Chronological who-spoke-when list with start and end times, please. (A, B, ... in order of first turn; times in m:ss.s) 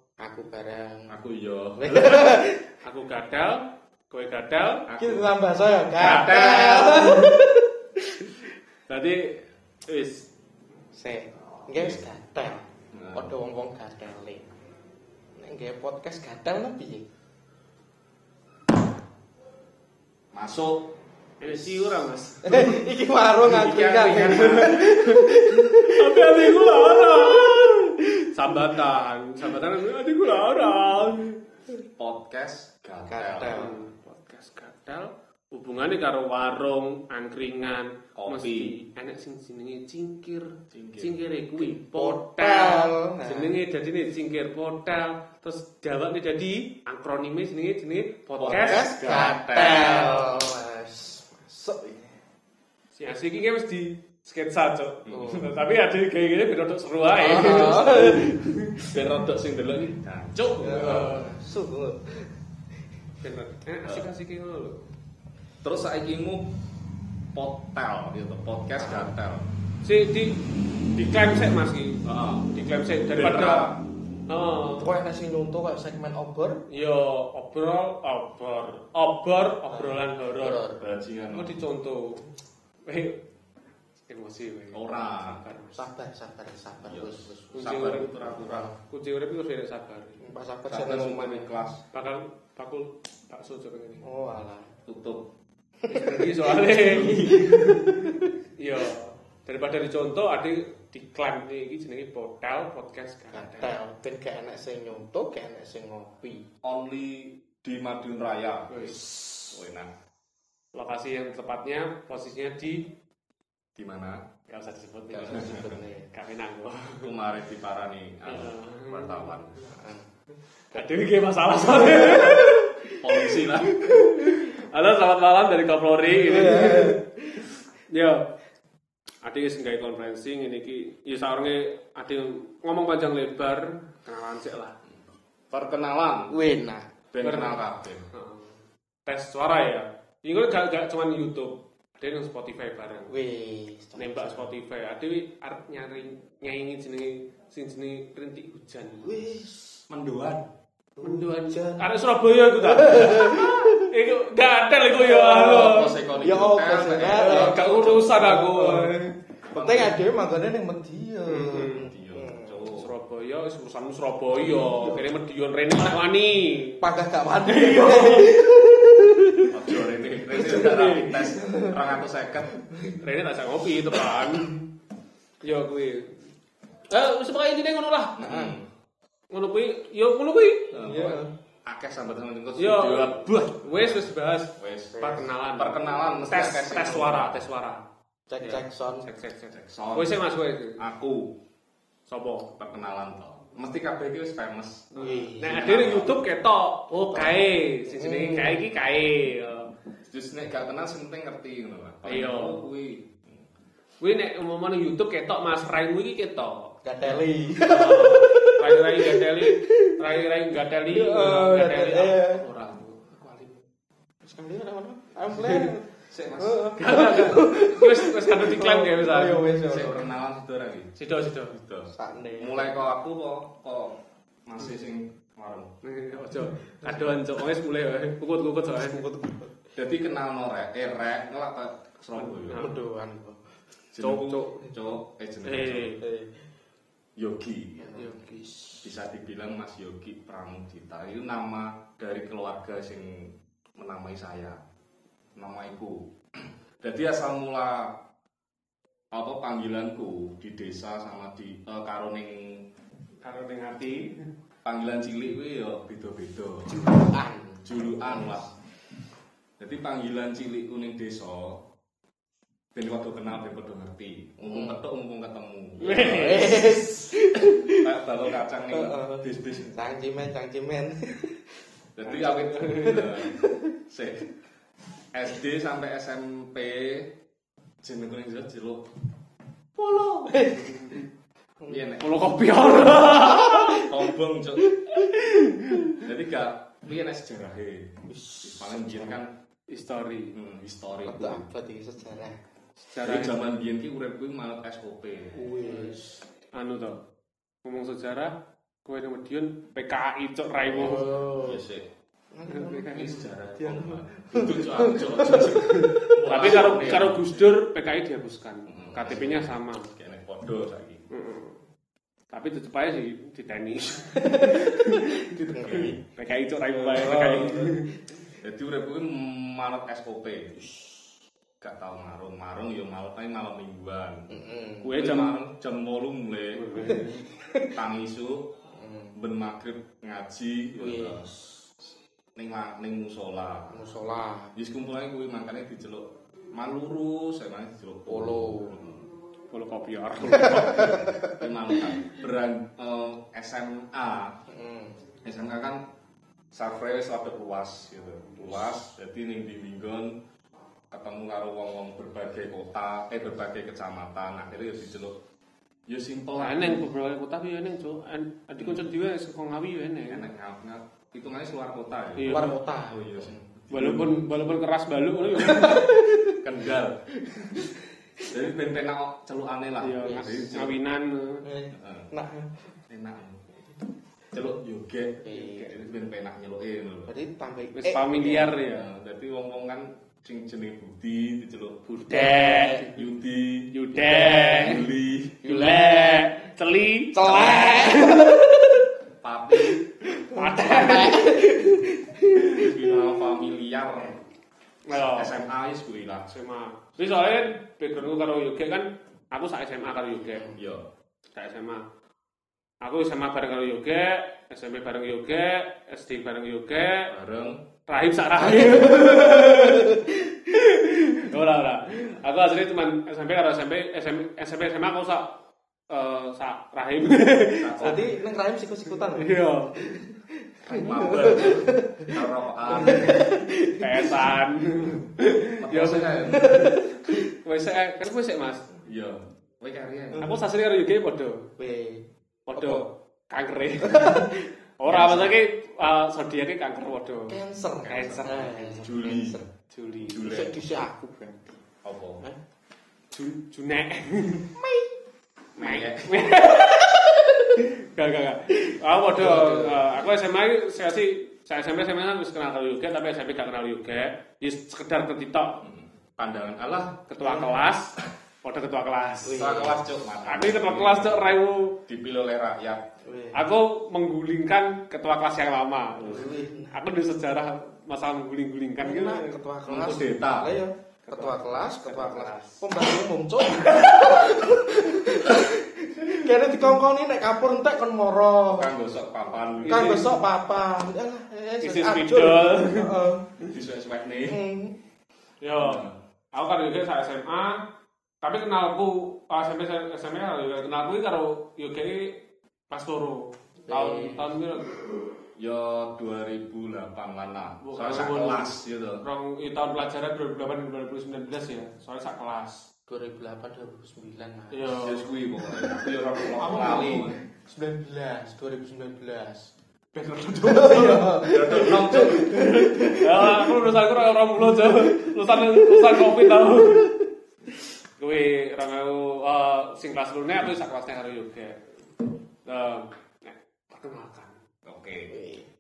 0:00.2-0:01.2 A
0:01.1-0:02.4 B
0:01.8-0:02.7 A
0:02.8-0:04.9 C
0:04.9-0:05.3 B
0:05.0-0:08.3 A
0:06.0-0:07.3 B
0:06.0-0:07.2 C
0:08.9-0:10.3 C
0:10.9-0:14.5 A
0:11.8-0:12.0 B
0:12.9-0:13.3 B
0:15.4-0:17.1 A
0:20.3-0:20.9 B
0:21.4-0:22.8 C
0:21.4-0:21.9 B
0:22.4-0:28.7 A
0:23.5-0:25.0 B
0:24.0-0:31.4 C
0:32.0-0:33.6 B
0:33.1-0:33.8 A
0:33.5-0:49.0 C
0:38.2-0:38.8 B
0:40.7-0:41.2 B
0:41.6-0:43.5 A
0:48.4-0:50.2 B
0:48.5-0:52.2 A
0:49.6-0:50.0 C
0:53.0-0:58.9 C
0:55.1-0:55.5 B
0:55.1-0:55.5 A
0:57.2-0:58.5 A
0:58.9-1:00.4 B
1:00.4-1:01.4 C
1:00.6-1:02.4 A
1:03.2-1:04.9 C
1:05.6-1:06.5 B
1:07.3-1:09.5 B
1:08.8-1:09.1 A
1:09.8-1:13.7 C
1:12.0-1:13.8 B
1:14.3-1:14.9 C
1:14.8-1:16.6 A
1:16.7-1:20.6 C
1:19.7-1:20.8 A
1:20.8-1:21.6 B
1:21.3-1:22.3 C
1:22.9-1:23.2 C
1:24.1-1:25.9 C
1:24.7-1:25.4 B
1:25.7-1:27.5 A
1:26.9-1:28.7 B
1:27.5-1:28.2 C
1:28.2-1:28.8 A
1:28.8-1:30.2 C
1:30.2-1:31.6 A
1:30.7-1:31.8 B
1:31.9-1:34.1 C
1:34.0-1:34.7 A
1:34.9-1:35.3 B
1:35.8-1:36.4 A
1:35.9-1:43.7 C
1:36.8-1:37.4 B
1:37.0-1:38.3 A
1:43.3-1:46.5 A
1:46.6-1:48.8 B
1:48.7-1:49.0 C
1:48.8-1:49.5 A
1:49.5-1:49.9 B
1:50.7-1:52.9 C
1:53.8-1:54.2 B
1:54.5-1:57.1 C
1:55.1-1:56.1 A
1:55.3-1:55.8 B
1:57.0-1:59.6 B
1:58.3-1:59.3 C
1:59.6-2:00.2 A
2:00.7-2:02.7 C
2:01.9-2:02.9 A
2:02.9-2:04.0 B
2:03.8-2:04.5 A
2:03.9-2:07.0 C
2:06.1-2:07.5 A
2:07.9-2:08.3 C
2:09.2-2:14.8 C
2:15.5-2:16.4 B
2:16.3-2:16.9 A
2:17.1-2:18.1 B
2:17.2-2:23.1 C
2:23.1-2:24.5 A
2:24.0-2:29.2 C
2:29.0-2:29.8 A
2:29.9-2:30.5 B
2:31.0-2:31.9 A
2:31.0-2:36.0 C
2:32.6-2:33.9 A
2:34.9-2:42.7 A
2:35.4-2:38.1 B
2:37.1-2:39.1 C
2:39.5-2:40.0 B
2:41.3-2:41.9 C
2:41.7-2:42.9 B
2:42.7-2:46.8 C
2:44.4-2:45.1 A
2:46.8-2:49.8 A
2:47.4-2:48.4 C
2:49.5-2:52.5 B
2:50.3-2:51.4 C
2:51.2-2:53.0 A
2:53.0-2:54.6 C
2:55.4-2:56.2 C
2:56.9-2:58.2 C
2:58.2-2:58.7 B
2:58.2-2:58.6 A
2:59.3-3:00.9 C
3:00.7-3:07.4 B
3:00.8-3:01.3 A
3:02.6-3:07.9 C
3:04.9-3:05.3 A
3:08.3-3:09.0 A
3:08.4-3:10.8 C
3:09.6-3:10.2 B
3:10.8-3:11.4 B
3:12.1-3:12.5 C
3:12.6-3:14.9 B
3:15.0-3:16.0 A
3:15.0-3:19.7 C
3:15.5-3:16.2 B
3:16.9-3:18.6 A
3:20.1-3:23.4 B
3:22.0-3:22.6 C
3:24.0-3:33.6 C
3:26.8-3:30.0 A
3:30.9-3:32.4 A
3:34.2-3:40.1 A
3:35.3-3:35.7 C
3:36.1-3:36.8 B
3:36.8-3:39.5 C
3:39.7-3:41.0 B
3:41.0-3:41.6 C
3:41.5-3:45.7 B
3:41.9-3:42.8 A
3:45.8-3:49.0 C
3:46.5-3:47.2 A
3:48.7-3:49.6 A
3:49.8-3:52.7 B
3:52.2-3:52.7 C
3:52.6-3:53.5 A
3:53.9-3:56.0 B
3:54.0-3:54.7 C
3:55.4-3:56.0 C
3:56.0-3:56.4 A
3:57.2-3:58.1 B
3:57.8-3:58.9 A
3:58.0-3:58.3 C
3:58.8-4:04.6 B
4:05.4-4:08.0 B
4:09.1-4:12.6 B
4:13.2-4:14.2 C
4:14.6-4:17.1 B
4:16.7-4:18.5 A
4:17.6-4:18.5 B
4:19.6-4:21.6 B
4:22.8-4:26.6 B
4:24.4-4:24.8 A
4:25.8-4:26.8 C
4:25.9-4:27.9 A
4:27.7-4:29.8 B
4:28.7-4:31.6 A
4:32.0-4:34.3 B
4:32.1-4:33.1 C
4:32.8-4:33.7 A
4:35.1-4:37.1 B
4:37.8-4:38.8 B
4:39.8-4:40.4 B
4:40.3-4:40.7 A
4:40.5-4:41.1 C
4:41.7-4:42.1 B
4:42.0-4:43.9 C
4:43.2-4:44.0 A
4:43.7-4:44.7 B
4:44.8-4:46.0 A
4:45.1-4:45.9 C
4:45.9-4:49.3 B
4:48.1-4:49.2 A
4:49.7-4:50.4 C
4:50.4-4:51.5 B
4:51.0-4:52.4 A
4:52.8-4:53.5 C
4:53.0-4:55.4 B
4:55.3-4:56.2 A
4:55.7-4:55.9 C
4:56.5-4:57.0 C
4:57.6-5:01.1 C
5:00.7-5:01.9 B
5:00.8-5:01.6 A
5:02.3-5:06.7 A
5:02.5-5:03.2 C
5:02.9-5:07.3 B
5:05.5-5:09.9 C
5:08.7-5:11.1 B
5:11.1-5:11.6 C
5:12.3-5:18.0 C
5:14.0-5:16.0 A
5:15.6-5:16.0 B
5:16.8-5:17.9 A
5:18.4-5:20.6 B
5:20.6-5:20.9 A
5:21.6-5:24.3 B
5:24.3-5:24.9 A
5:24.8-5:25.4 C
5:24.9-5:26.7 B
5:26.5-5:27.3 C
5:26.8-5:27.8 A
5:27.7-5:28.5 B
5:28.7-5:29.2 A
5:29.2-5:31.3 B
5:30.8-5:31.7 A
5:32.4-5:33.8 B
5:33.7-5:34.5 A
5:34.6-5:39.1 B
5:38.1-5:38.8 A
5:39.5-5:41.1 C
5:40.3-5:41.9 A
5:41.3-5:44.4 B
5:44.5-5:45.0 A
5:45.2-5:45.8 B
5:46.5-5:50.2 B
5:50.9-5:55.2 B
5:55.9-5:56.9 B
5:56.4-6:00.2 C
6:00.1-6:04.3 B
6:02.2-6:02.6 C
6:02.3-6:03.5 A
6:03.7-6:05.9 C
6:05.4-6:06.4 A
6:06.4-6:07.6 B
6:07.2-6:08.2 A
6:08.3-6:10.8 B
6:09.8-6:11.5 C
6:10.0-6:10.3 A
6:11.4-6:12.6 A
6:11.7-6:12.1 B
6:12.9-6:13.6 B
6:14.3-6:17.1 B
6:15.2-6:15.8 A
6:15.4-6:15.7 C
6:17.1-6:18.6 A
6:17.7-6:18.9 C
6:18.6-6:21.8 B
6:21.9-6:22.9 C
6:22.1-6:22.9 A
6:22.9-6:25.4 B
6:23.7-6:24.8 C
6:24.0-6:24.9 A
6:25.4-6:26.3 A
6:25.4-6:28.3 C
6:27.1-6:28.9 A
6:29.2-6:29.8 B
6:29.5-6:33.2 A
6:30.3-6:31.5 C
6:32.4-6:34.2 B
6:34.9-6:35.3 C
6:34.9-6:36.3 B
6:36.3-6:40.5 C
6:40.3-6:40.6 A
6:40.6-6:40.9 B
6:41.4-6:41.8 C
6:42.8-6:47.1 C
6:47.1-6:47.6 B
6:47.9-6:49.9 C
6:48.4-6:51.2 A
6:50.7-6:55.4 C
6:55.9-6:58.0 C
6:57.6-6:58.1 B
6:57.8-7:04.3 A
6:59.1-6:59.8 C
7:00.7-7:03.3 B
7:03.8-7:08.7 C
7:05.6-7:06.5 B
7:06.3-7:07.2 A
7:08.9-7:10.3 B
7:10.2-7:11.5 C
7:11.6-7:12.9 A
7:12.5-7:18.9 C
7:13.8-7:15.4 A
7:17.3-7:19.5 A
7:17.8-7:19.4 B
7:19.7-7:20.2 C
7:20.1-7:20.6 B
7:20.1-7:21.6 A
7:21.8-7:22.2 B
7:23.1-7:24.5 C
7:24.6-7:25.0 A
7:25.6-7:26.2 B
7:25.6-7:35.6 C
7:29.1-7:30.0 A
7:35.6-7:37.0 B
7:37.1-7:39.4 C
7:37.2-7:37.6 A
7:39.2-7:39.8 A
7:39.3-7:41.3 B
7:40.3-7:41.8 C
7:41.9-7:42.8 B
7:43.0-7:43.4 A
7:43.3-7:49.4 C
7:46.1-7:46.8 A
7:48.8-7:58.7 A
7:49.7-7:50.6 B
7:51.1-7:52.7 C
7:58.5-8:00.0 B
7:59.6-8:00.2 C
7:59.7-8:03.3 A
8:01.6-8:02.9 C
8:03.5-8:04.4 B
8:04.3-8:04.8 A
8:05.4-8:07.6 C
8:05.6-8:06.0 B
8:08.2-8:14.7 C
8:13.7-8:14.3 A
8:15.4-8:19.0 B
8:17.6-8:22.7 C
8:22.9-8:24.8 A
8:24.5-8:25.1 C
8:24.8-8:27.2 B
8:25.4-8:29.5 A
8:26.3-8:27.1 C
8:29.9-8:36.9 C
8:30.4-8:33.8 A
8:31.2-8:32.5 B
8:34.4-8:37.0 A
8:38.0-8:41.6 C
8:42.4-8:44.4 C
8:44.6-8:45.1 B
8:45.1-8:45.5 A